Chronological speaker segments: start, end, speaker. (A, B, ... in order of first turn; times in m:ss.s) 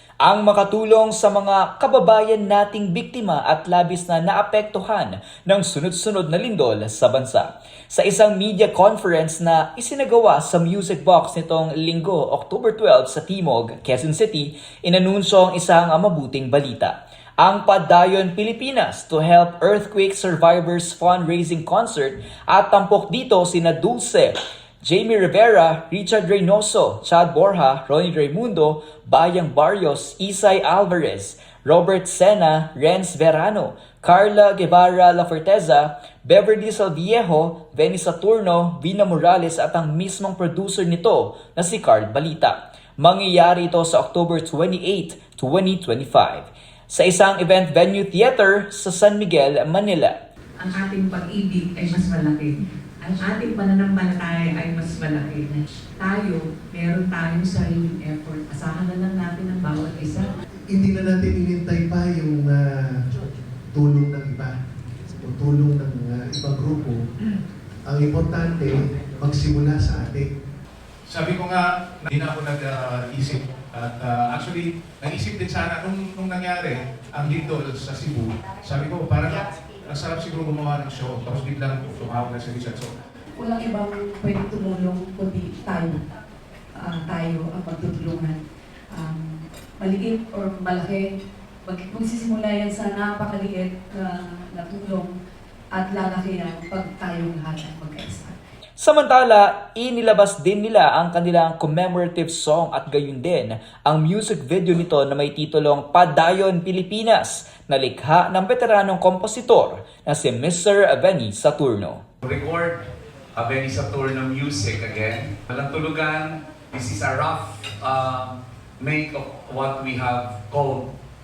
0:00.2-0:24.3 A
0:24.8-0:50.1 A
0:50.6-1:00.3 B
1:00.7-1:02.6 C
1:03.7-1:04.6 C
1:05.2-1:07.0 C
1:07.9-1:10.3 C
1:11.1-1:22.9 D
1:23.4-1:26.0 E
1:26.8-1:31.1 E
1:31.6-1:35.2 E
1:35.7-1:38.4 E
1:38.8-1:52.0 A
1:52.2-1:52.8 F
1:53.4-2:00.9 F